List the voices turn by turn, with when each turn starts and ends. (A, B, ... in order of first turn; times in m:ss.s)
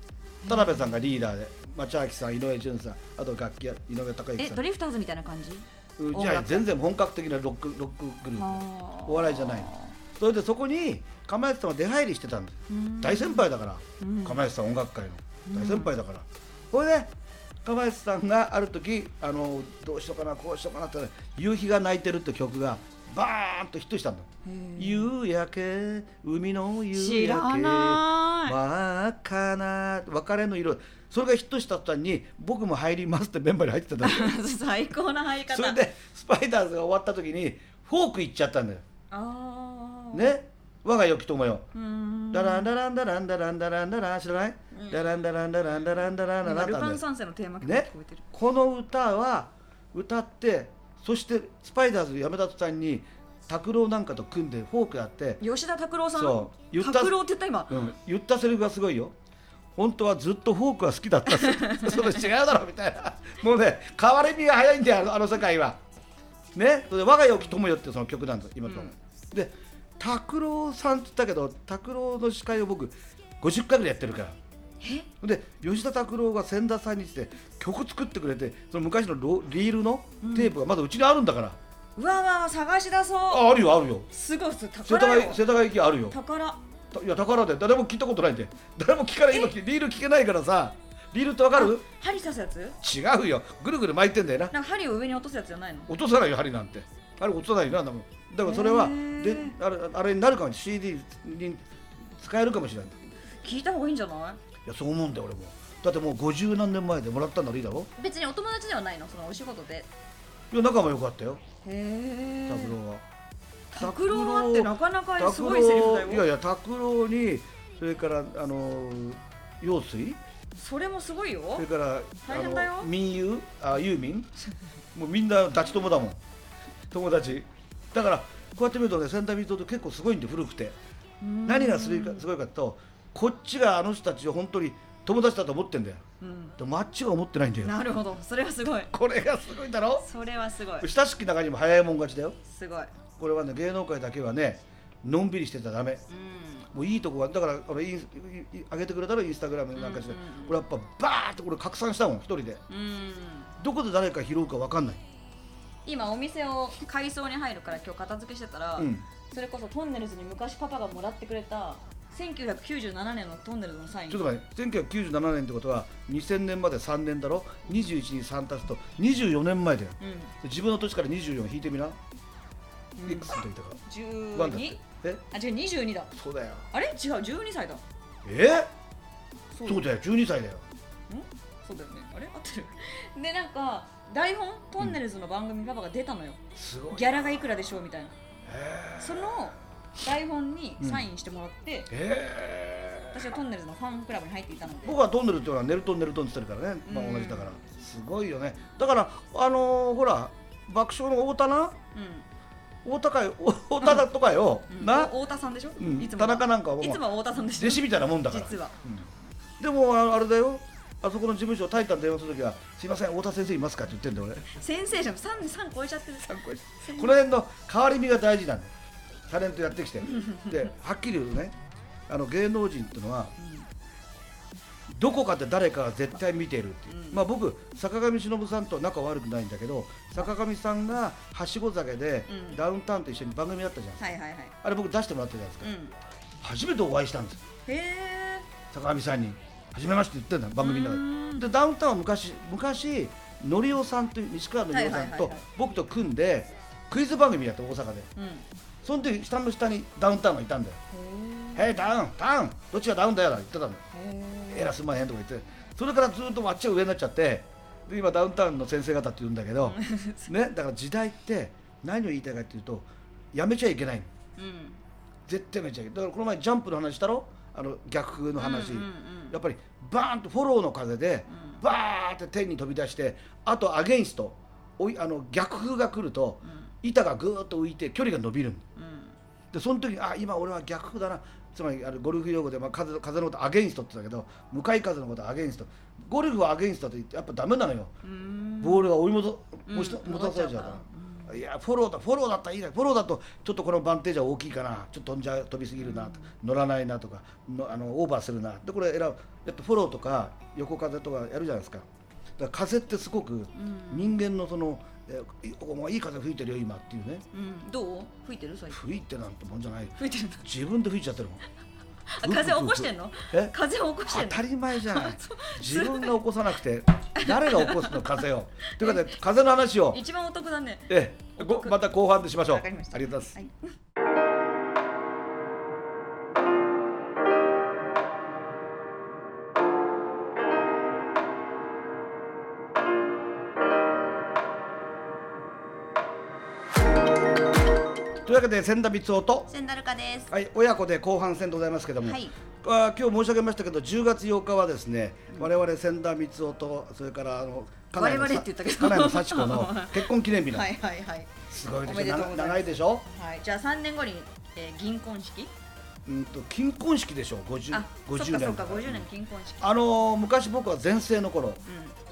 0:00.4-0:01.0 A
0:00.5-0:04.6 B
0:04.4-0:06.7 A
0:06.0-0:17.1 B
0:08.4-0:10.0 A
0:12.7-0:14.4 A
0:15.4-0:15.9 A
0:17.6-0:34.4 B
0:24.4-0:25.1 A
0:26.9-0:28.6 A
0:34.0-0:35.8 A
0:35.5-0:38.8 B
0:39.1-0:40.4 A
0:40.1-0:41.7 B
0:41.7-0:42.7 A
0:42.3-0:47.0 B
0:44.7-0:45.1 A
0:46.4-0:48.2 A
0:47.6-0:55.4 B
0:55.4-0:57.8 A
0:56.2-0:57.2 B
0:57.7-0:59.2 B
0:59.8-1:05.8 B
1:01.4-1:02.0 A
1:06.6-1:14.4 B
1:08.7-1:08.9 A
1:14.8-1:15.1 A
1:15.2-1:21.6 B
1:20.2-1:20.5 A
1:22.0-1:23.5 A
1:23.3-1:24.1 B
1:24.1-1:25.4 A
1:24.9-1:26.2 B
1:26.1-1:26.6 A
1:26.9-1:31.8 B
1:31.6-1:32.8 A
1:32.8-1:34.5 B
1:34.5-1:35.9 A
1:35.9-1:43.0 B
1:38.4-1:39.6 A
1:43.4-1:44.4 A
1:44.6-1:47.9 B
1:48.0-1:49.9 A
1:50.5-1:51.4 B
1:51.6-1:52.8 A
1:52.5-1:53.0 B
1:53.7-1:56.3 A
1:53.8-2:00.2 B
2:00.6-2:01.7 A
2:01.6-2:04.3 B
2:02.2-2:02.9 A
2:04.9-2:06.2 B
2:06.9-2:10.8 B
2:11.2-2:12.2 A
2:11.5-2:16.0 B
2:16.2-2:16.6 A
2:16.6-2:17.8 B
2:17.6-2:18.9 A
2:18.9-2:20.1 B
2:20.0-2:20.9 A
2:20.8-2:22.4 B
2:22.5-2:22.9 A
2:23.2-2:26.0 B
2:26.1-2:26.7 A
2:26.7-2:32.6 B
2:29.8-2:30.6 A
2:32.7-2:33.5 A
2:33.6-2:35.0 B
2:35.9-2:44.3 A
2:38.8-2:39.0 B
2:44.1-2:52.0 B
2:50.0-2:50.3 A
2:53.0-2:54.8 A
2:53.0-2:53.8 B
2:54.3-2:55.2 B
2:55.3-2:56.1 A
2:56.2-2:56.7 B
2:56.7-2:57.8 A
2:58.2-2:58.7 B
2:59.5-2:59.8 A
2:59.6-3:00.6 B
3:01.1-3:08.2 A
3:06.6-3:07.5 B
3:08.4-3:09.5 B
3:09.0-3:11.9 A
3:10.8-3:11.0 B
3:11.9-3:13.2 B
3:13.1-3:15.0 A
3:14.8-3:21.8 B
3:16.9-3:17.6 A
3:21.9-3:22.2 A
3:22.8-3:25.1 B
3:24.7-3:28.8 A
3:25.8-3:29.0 B
3:29.6-3:34.5 B
3:34.5-3:37.1 A
3:36.3-3:38.7 B
3:39.3-3:41.6 B
3:40.1-3:40.6 A
3:42.1-3:43.4 B
3:43.4-3:43.7 A
3:44.9-3:55.7 B
3:46.9-3:47.2 A
3:52.3-3:52.6 A
3:54.0-3:54.5 A
3:55.6-3:56.0 A
3:56.4-3:57.4 B
3:57.7-3:58.5 A
3:58.7-4:08.1 B
4:00.6-4:01.5 A
4:04.7-4:05.4 A
4:08.2-4:08.5 A
4:08.8-4:10.8 B
4:10.9-4:11.9 A
4:11.6-4:13.8 B
4:13.9-4:14.7 A
4:14.5-4:24.1 B
4:19.6-4:20.3 A
4:24.4-4:24.8 A
4:25.3-4:38.6 B
4:28.4-4:29.4 A
4:31.3-4:31.6 A
4:36.4-4:36.7 A
4:38.8-4:39.1 A
4:39.5-4:47.9 B
4:48.0-4:49.0 A
4:48.6-5:01.9 B
4:49.7-4:51.3 A
4:55.8-4:56.3 A
5:02.4-5:07.3 B
5:03.6-5:04.2 A
5:07.3-5:08.8 A
5:08.7-5:11.4 B
5:10.0-5:10.5 A
5:12.1-5:16.2 A
5:12.2-5:13.6 B
5:14.1-5:20.0 B
5:17.2-5:18.2 A
5:18.7-5:19.2 A
5:19.9-5:23.6 A
5:20.9-5:23.4 B
5:38.2-5:39.5 B
5:39.5-5:40.3 A
5:40.3-5:50.8 B
5:42.0-5:42.3 A
5:47.9-5:55.5 A
5:51.5-5:53.0 B
5:56.1-5:59.1 B
5:57.7-5:59.7 A
5:59.6-6:01.6 B
6:01.6-6:01.9 A